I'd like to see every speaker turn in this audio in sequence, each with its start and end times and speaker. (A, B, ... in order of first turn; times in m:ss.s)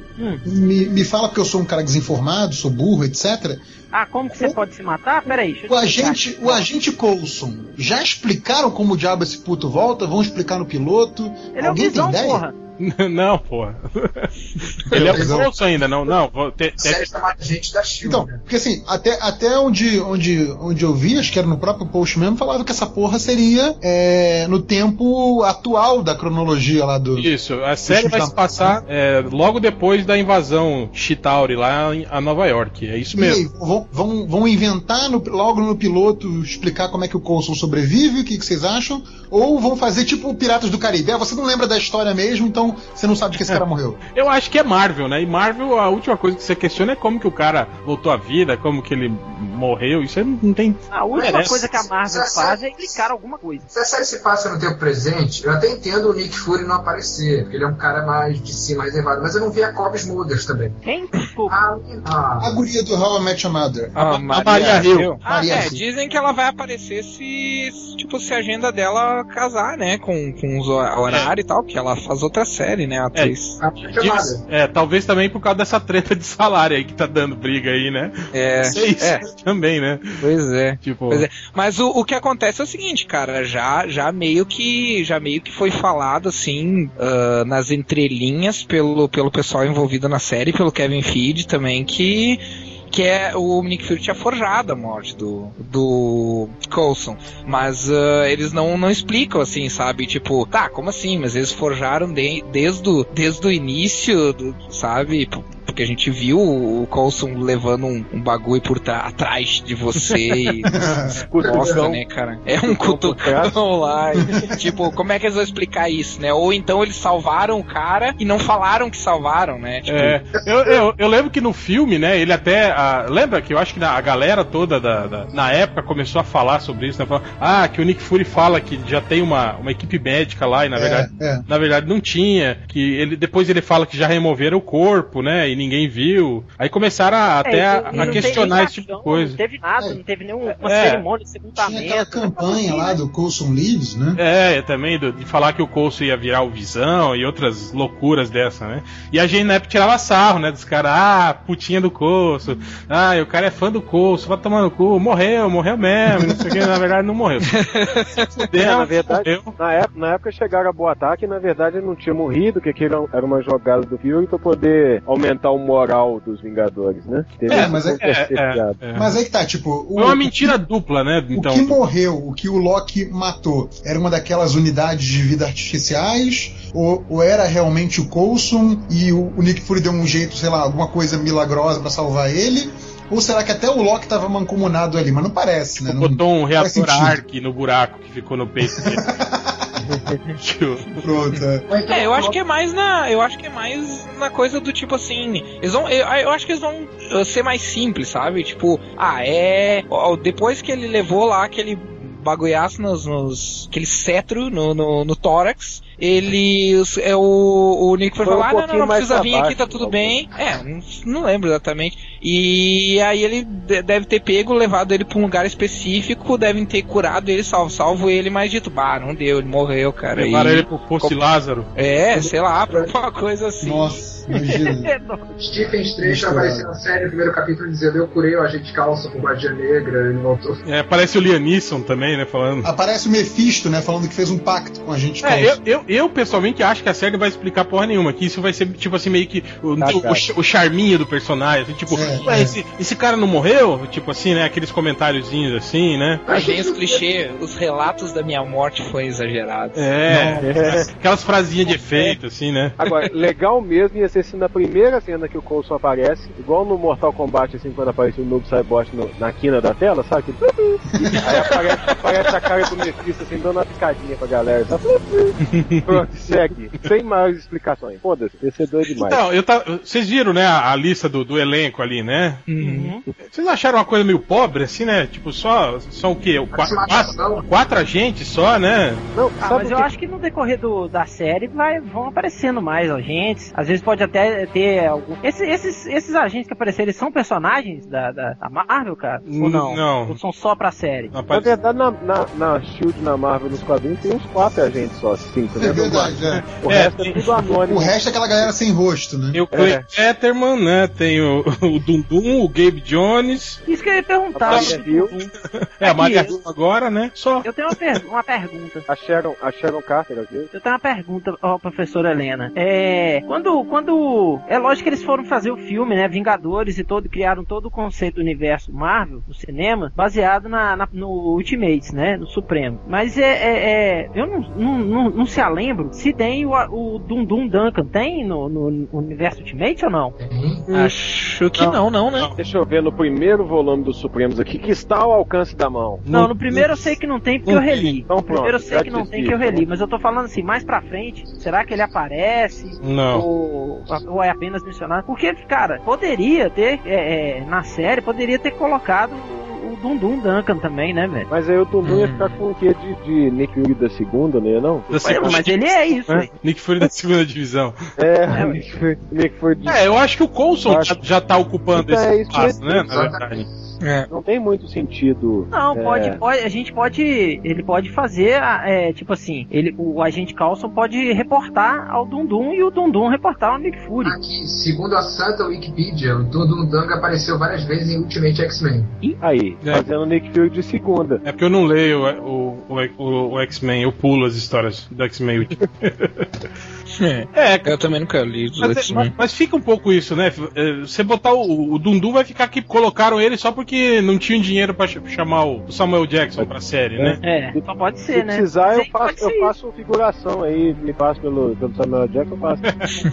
0:00.2-0:00.4 A
0:00.4-0:03.6 B
0:03.9-0:06.7 A
0:04.3-0:04.6 B
0:05.7-0:12.4 B
0:11.5-0:12.5 A
0:12.8-0:17.1 C
0:14.9-0:16.2 D
0:14.9-0:15.5 B
0:16.8-0:18.4 D
0:18.0-0:27.3 B
0:27.2-0:33.4 C
0:27.9-0:28.8 B
0:33.1-0:44.0 B
0:43.4-0:43.6 C
0:44.1-0:51.6 C
0:50.9-0:53.7 A
0:51.1-0:53.0 D
0:53.7-1:00.8 D
1:00.8-1:01.6 A
1:01.5-1:02.6 D
1:02.4-1:05.8 B
1:04.0-1:13.6 E
1:04.0-1:05.1 C
1:13.6-1:14.5 D
1:13.9-1:20.3 C
1:18.3-1:19.2 E
1:20.2-1:50.7 E
1:20.8-1:21.2 C
1:50.7-1:51.2 B
1:51.1-1:52.0 F
1:51.4-1:51.8 D
1:51.4-2:00.2 E
1:52.6-1:54.5 F
1:54.2-1:54.7 B
1:59.9-2:19.4 C
2:00.4-2:00.8 D
2:10.8-2:11.5 B
2:17.4-2:23.0 A
2:17.9-2:18.4 B
2:20.6-2:21.0 C
2:21.6-2:24.2 B
2:24.2-2:37.6 C
2:36.1-2:36.6 B
2:37.5-2:38.5 E
2:38.4-2:39.6 C
2:38.5-2:48.8 F
2:47.5-2:48.0 B
2:47.5-2:49.1 C
2:48.9-2:50.6 B
2:50.0-2:51.8 C
2:51.4-3:07.2 B
3:05.8-3:09.1 C
3:08.7-3:09.7 B
3:10.4-3:11.0 C
3:11.0-3:11.6 B
3:11.6-3:12.4 D
3:11.9-3:41.2 E
3:28.2-3:30.2 F
3:40.1-3:41.7 C
3:41.8-3:44.0 E
3:42.1-3:43.0 D
3:43.6-3:44.9 B
3:44.3-3:45.8 A
3:45.4-3:50.6 D
3:46.0-3:46.7 B
3:50.6-3:52.7 C
3:52.6-3:55.6 B
3:55.2-4:06.2 C
3:59.8-4:00.2 F
4:01.9-4:02.6 B
4:06.3-4:07.0 D
4:06.3-4:09.8 E
4:09.8-4:12.8 C
4:10.1-4:10.5 B
4:10.4-4:10.9 F
4:12.8-4:29.2 F
4:20.9-4:21.3 B
4:21.1-4:22.8 C
4:25.4-4:26.0 C
4:28.9-4:32.4 C
4:32.5-4:33.0 E
4:32.6-4:33.0 A
4:33.3-4:39.0 C
4:36.5-4:37.5 D
4:39.1-4:39.9 F
4:39.4-4:51.1 A
4:49.3-4:50.2 C
4:51.1-4:51.5 C
4:51.3-4:58.5 F
4:55.6-4:56.5 B
4:56.4-4:57.4 C
4:57.7-4:59.4 B
4:59.3-5:03.6 C
4:59.5-4:59.9 F
5:03.7-5:05.3 A
5:04.3-5:05.1 F
5:04.5-5:07.5 C
5:05.8-5:06.4 A
5:07.4-5:08.9 A
5:08.9-5:10.5 F
5:10.5-5:30.2 A
5:30.2-5:30.7 D
5:30.7-5:32.3 E
5:31.6-5:32.4 C
5:32.4-5:36.0 F
5:36.1-5:37.0 C
5:36.1-5:51.3 A
5:37.5-5:38.0 C
5:38.1-5:39.7 F
5:42.8-5:43.3 C
5:51.3-5:55.5 F
5:51.9-5:52.4 E
5:54.9-5:57.8 C
5:55.0-5:56.3 A
5:58.0-5:59.8 F
5:58.3-5:58.6 A
5:59.6-6:03.4 C
6:00.6-6:01.0 F
6:01.7-6:03.0 F
6:02.7-6:03.7 D
6:03.8-6:04.1 E
6:04.1-6:06.2 F
6:05.5-6:14.2 A
6:14.0-6:18.9 D
6:19.0-6:21.2 F
6:21.2-6:26.3 C
6:27.0-6:29.1 E
6:27.3-6:27.9 C
6:28.6-6:37.2 C
6:36.4-6:42.7 F
6:37.2-6:39.5 A
6:42.6-6:43.0 C